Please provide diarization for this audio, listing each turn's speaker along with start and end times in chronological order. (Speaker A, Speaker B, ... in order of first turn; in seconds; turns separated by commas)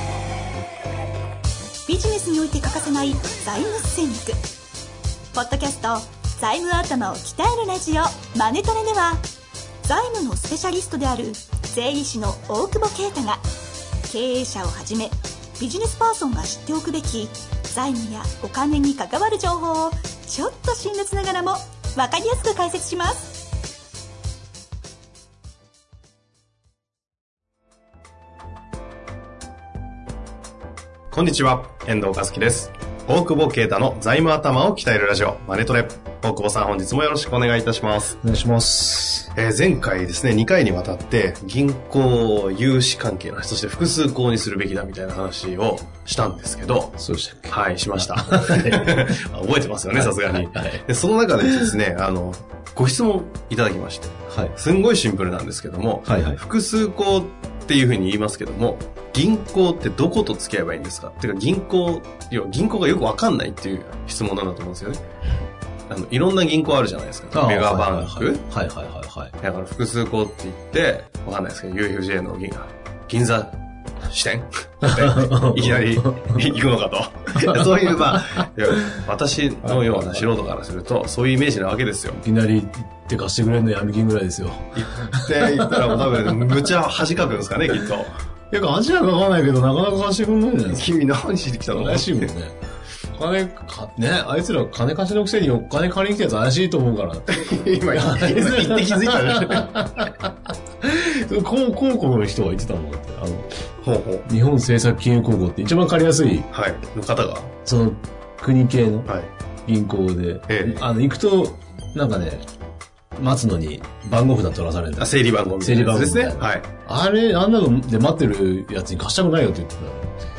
Speaker A: 1.9-4.4, Speaker A: 5.3-9.2, Speaker A: 9.8-13.4, Speaker A: 14.1-23.4, Speaker B: 31.1-38.2, Speaker C: 38.2-39.3, Speaker B: 39.4-47.0, Speaker C: 47.0-49.1, Speaker B: 47.5-65.0, Speaker C: 49.9-50.8, Speaker C: 51.4-51.7, Speaker C: 54.3-54.5, Speaker C: 56.1-56.4, Speaker B: 65.9-68.4, Speaker C: 67.3-69.3, Speaker B: 69.4-82.2, Speaker C: 74.8-76.5, Speaker C: 77.3-79.0, Speaker C: 79.7-80.3, Speaker C: 82.2-86.7, Speaker B: 84.8-88.2, Speaker C: 88.5-90.8, Speaker B: 90.7-92.3, Speaker C: 91.7-92.6, Speaker C: 93.1-103.5, Speaker B: 97.3-99.8, Speaker B: 103.8-104.3, Speaker C: 104.3-106.5, Speaker B: 106.5-107.5, Speaker C: 107.7-109.1, Speaker C: 109.7-112.5, Speaker B: 110.5-110.9, Speaker C: 113.2-120.1, Speaker B: 115.0-116.7